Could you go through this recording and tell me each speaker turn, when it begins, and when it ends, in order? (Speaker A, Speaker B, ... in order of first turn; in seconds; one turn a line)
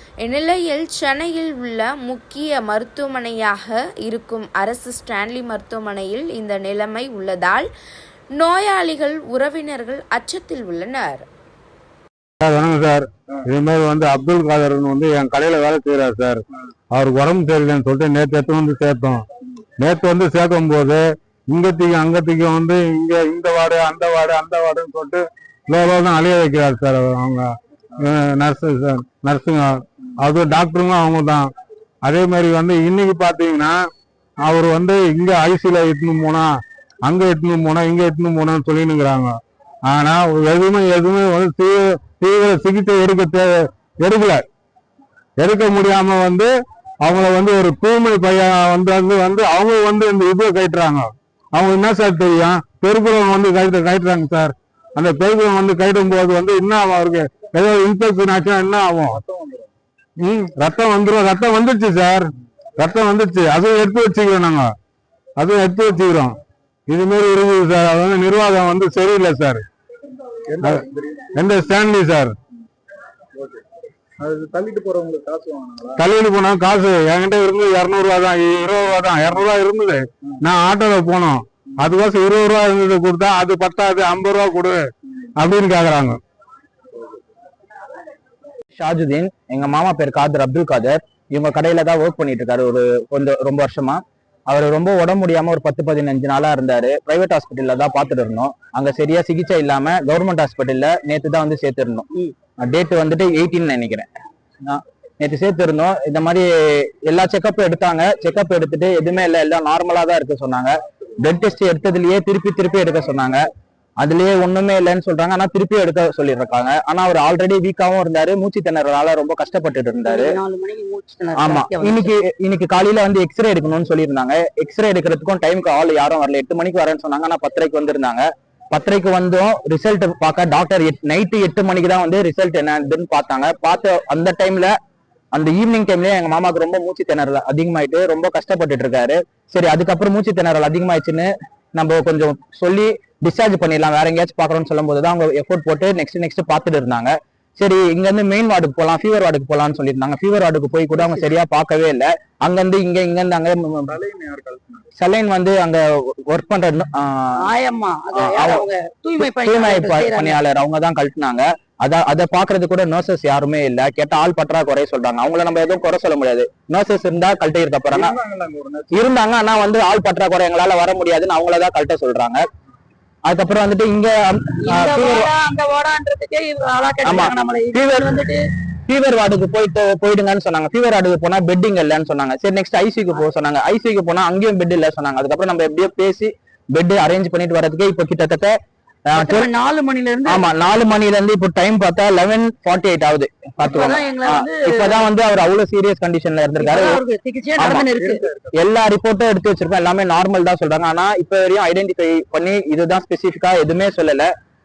Speaker A: 0.2-7.7
Speaker A: 8.3-11.2
Speaker B: 12.4-19.2
Speaker B: 19.8-31.5
Speaker B: 32.0-33.8
Speaker B: 34.4-44.5
Speaker B: 45.4-59.2
Speaker C: 59.1-59.7
Speaker B: 60.2-64.7
Speaker B: 65.4-69.7
Speaker C: 70.5-71.3
Speaker B: 70.6-72.4
Speaker C: 74.2-76.0
Speaker B: 76.0-84.8
Speaker B: 85.4-86.2
Speaker D: 88.8-102.1
Speaker D: 102.6-104.1
Speaker D: 104.6-113.4
Speaker D: 114.0-120.4
Speaker E: 120.0-122.1
Speaker D: 121.4-134.7
Speaker D: 135.3-154.0
Speaker C: 153.9-154.8
Speaker D: 155.0-157.4
Speaker E: 157.4-160.4
Speaker D: 158.1-158.7
Speaker D: 159.2-168.2
Speaker C: 167.9-169.0
Speaker D: 168.9-172.4
Speaker D: 173.3-175.3
Speaker E: 174.6-178.4
Speaker D: 177.0-178.2
Speaker D: 178.9-188.6
Speaker D: 189.1-189.5
Speaker E: 189.2-190.5
Speaker D: 190.2-197.0
Speaker E: 193.6-195.1
Speaker E: 196.6-198.3
Speaker D: 197.6-197.9
Speaker C: 198.0-198.5
Speaker D: 198.6-204.3